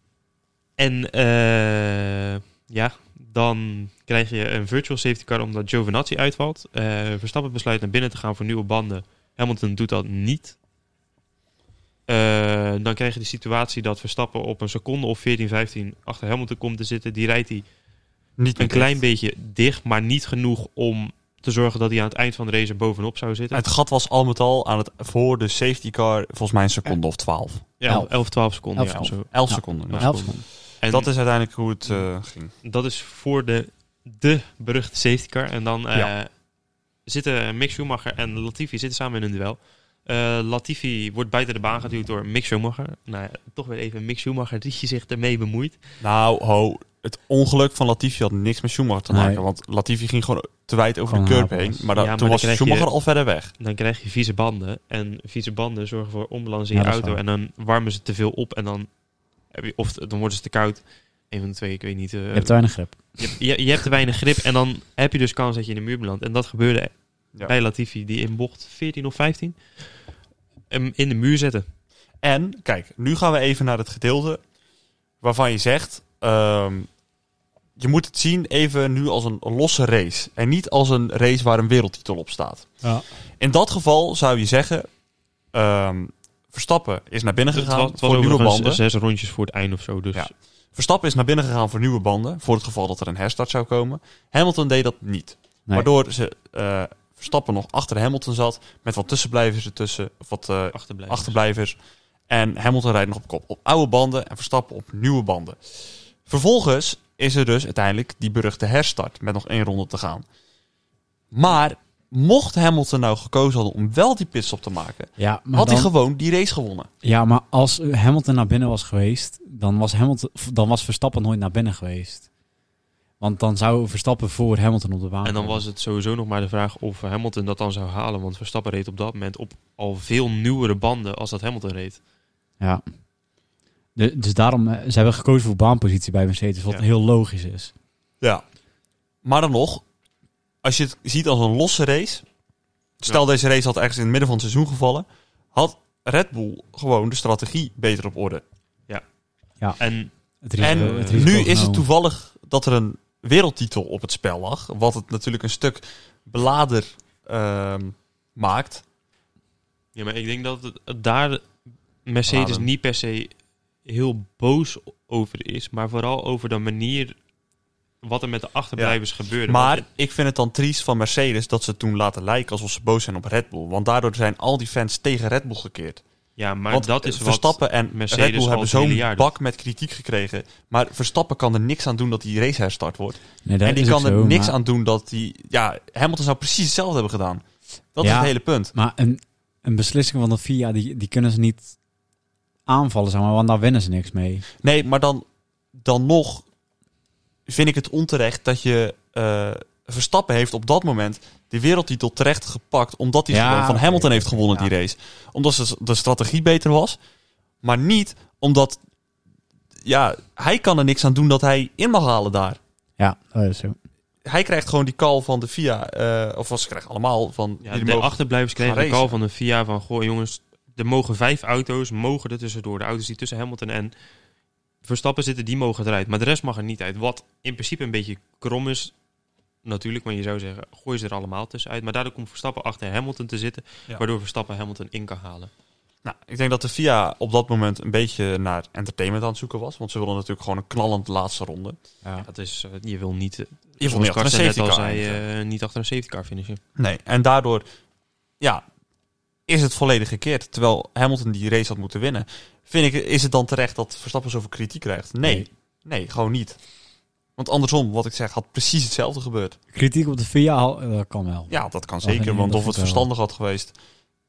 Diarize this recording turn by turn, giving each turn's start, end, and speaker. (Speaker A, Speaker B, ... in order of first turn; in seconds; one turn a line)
Speaker A: 0.8-10.6
Speaker A: 12.1-17.6
Speaker B: 18.4-19.0
Speaker A: 18.6-23.6
Speaker B: 23.5-27.7
Speaker A: 27.8-31.1
Speaker C: 27.9-28.1
Speaker C: 28.7-30.4
Speaker B: 28.9-32.5
Speaker A: 32.6-36.3
Speaker A: 37.1-45.8
Speaker B: 46.0-53.5
Speaker C: 49.1-49.4
Speaker C: 51.1-51.9
Speaker A: 52.0-52.9
Speaker A: 53.6-58.9
Speaker C: 56.7-57.2
Speaker A: 59.5-69.6
Speaker C: 62.3-63.3
Speaker A: 70.7-71.7
Speaker B: 72.2-74.4
Speaker B: 75.2-76.9
Speaker B: 77.8-82.8
Speaker B: 83.4-84.9
Speaker B: 85.5-88.8
Speaker A: 87.5-90.3
Speaker B: 90.1-101.8
Speaker A: 100.7-101.4
Speaker B: 102.3-110.2
Speaker B: 111.3-116.9
Speaker C: 115.2-115.9
Speaker C: 117.0-122.3
Speaker C: 123.2-125.6
Speaker A: 125.2-132.0
Speaker C: 133.9-137.7
Speaker B: 139.2-139.8
Speaker B: 140.6-142.2
Speaker B: 143.0-148.4
Speaker A: 149.8-151.3
Speaker C: 150.4-151.9
Speaker B: 150.6-158.8
Speaker A: 159.9-161.5
Speaker A: 162.1-163.3
Speaker B: 162.3-162.7
Speaker A: 163.8-167.2
Speaker A: 168.0-169.9
Speaker B: 168.8-176.0
Speaker A: 176.4-179.3
Speaker B: 176.7-187.4
Speaker C: 183.4-184.6
Speaker B: 187.9-188.7
Speaker C: 188.0-191.7
Speaker C: 192.7-194.4
Speaker B: 194.6-196.4
Speaker B: 197.5-207.0
Speaker C: 203.3-204.7
Speaker B: 207.6-208.8
Speaker B: 209.8-212.6
Speaker C: 213.0-213.8
Speaker B: 214.2-219.2
Speaker A: 217.6-223.9
Speaker A: 224.8-228.9
Speaker A: 229.6-235.5
Speaker B: 236.0-241.8
Speaker A: 242.2-246.6
Speaker B: 243.8-245.2
Speaker B: 246.8-247.6
Speaker B: 249.5-256.6
Speaker C: 255.2-255.5
Speaker B: 257.4-259.6
Speaker C: 259.7-263.1
Speaker B: 261.5-263.8